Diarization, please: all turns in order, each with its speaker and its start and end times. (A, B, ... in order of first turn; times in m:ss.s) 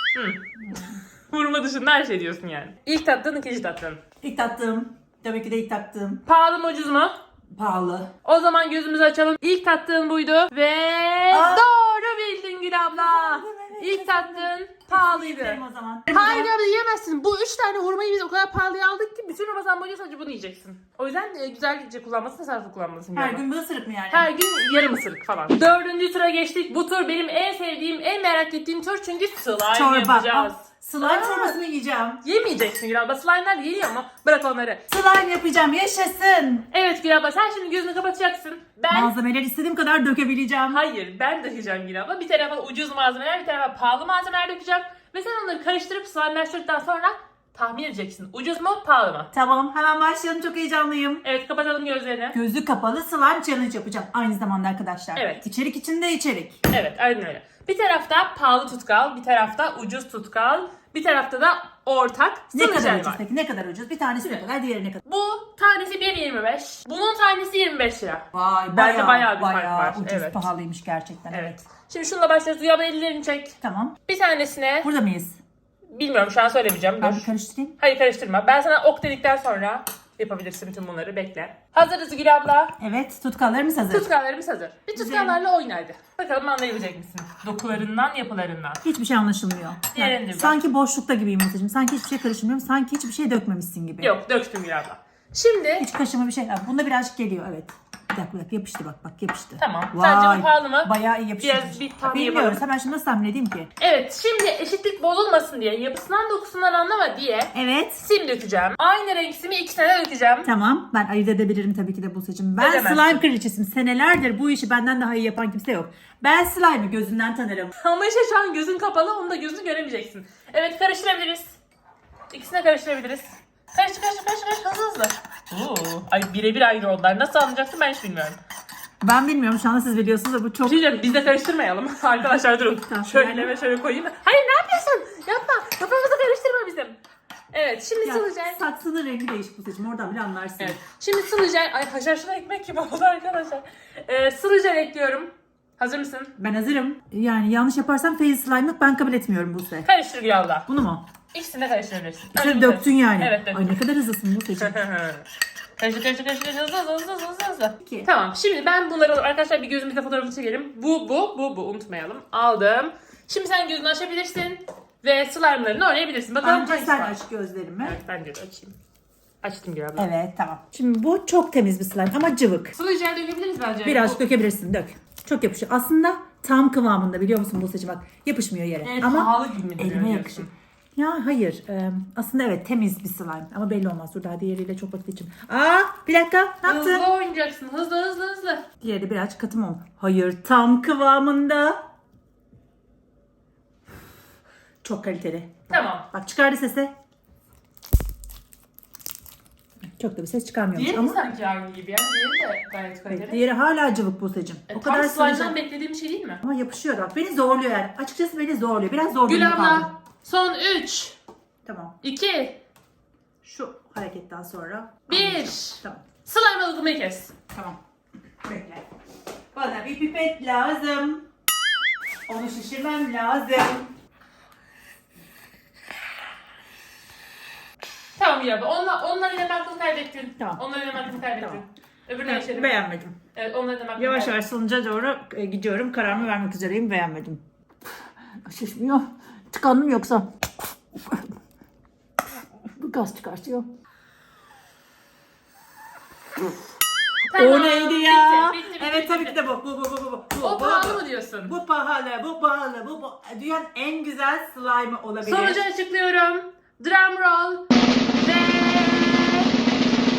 0:00.1-0:00.8 A
0:00.6-0:01.0 B
0:01.3-0:04.0 A
0:04.2-0:06.2 B
0:06.3-0:07.2 A
0:07.6-0:08.1 B
0:08.2-0:23.4 A
0:11.3-0:11.6 B
0:12.9-0:16.5 B
0:23.2-0:24.3 B
0:24.1-0:31.6 A
0:29.7-0:32.2 B
0:32.2-0:34.8 A
0:34.9-0:36.7 B
0:36.7-0:39.2 A
0:38.9-0:40.8 B
0:40.7-0:49.3 A
0:49.3-0:51.2 B
0:51.2-0:52.4 A
0:52.3-0:56.6 B
0:55.2-0:55.5 A
0:56.7-1:03.2 A
1:02.5-1:05.0 B
1:05.0-1:10.4 A
1:08.3-1:11.6 B
1:11.3-1:13.6 A
1:13.6-1:14.0 B
1:14.1-1:14.9 A
1:14.8-1:15.4 B
1:15.9-1:17.3 A
1:17.0-1:17.8 B
1:17.8-1:22.7 A
1:22.8-1:24.1 B
1:23.9-1:28.8 A
1:25.0-1:25.4 B
1:28.8-1:34.2 B
1:29.9-1:30.6 A
1:34.0-1:35.9 A
1:35.8-1:43.7 B
1:39.6-1:42.6 A
1:43.8-1:50.5 A
1:47.5-1:48.1 B
1:50.4-1:57.8 B
1:52.6-1:53.2 A
1:57.8-2:01.6 A
2:02.3-2:08.4 A
2:09.0-2:10.8 B
2:10.6-2:17.0 A
2:12.9-2:13.5 B
2:17.5-2:18.6 A
2:18.0-2:20.8 B
2:20.6-2:26.3 A
2:26.4-2:29.9 B
2:29.8-2:30.7 A
2:30.7-2:31.1 B
2:31.3-2:33.8 A
2:32.3-2:34.8 B
2:34.6-2:35.3 A
2:35.8-2:47.2 A
2:37.8-2:38.1 B
2:46.4-2:48.0 B
2:47.8-2:48.8 A
2:49.4-2:50.1 A
2:50.0-2:52.8 B
2:52.8-2:54.2 A
2:53.8-3:07.0 B
2:58.8-3:00.5 A
3:06.6-3:08.6 A
3:08.8-3:11.8 B
3:14.8-3:16.9 B
3:15.7-3:16.1 A
3:20.0-3:21.2 B
3:20.7-3:23.4 A
3:23.1-3:25.6 B
3:24.7-3:26.4 A
3:26.4-3:29.9 B
3:29.2-3:31.2 A
3:31.6-3:32.0 B
3:32.0-3:32.6 A
3:33.4-3:36.0 B
3:35.1-3:37.3 A
3:37.5-3:37.8 B
3:38.4-3:38.8 B
3:39.5-3:41.2 B
3:42.3-3:43.9 B
3:48.2-3:52.8 A
3:50.4-3:51.6 B
3:52.3-3:53.2 B
3:53.4-3:54.4 A
3:54.0-3:57.4 B
3:58.4-4:00.3 B
4:00.9-4:01.3 B
4:02.6-4:03.7 B
4:07.3-4:09.4 A
4:07.3-4:15.6 B
4:10.4-4:11.5 A
4:15.2-4:19.5 A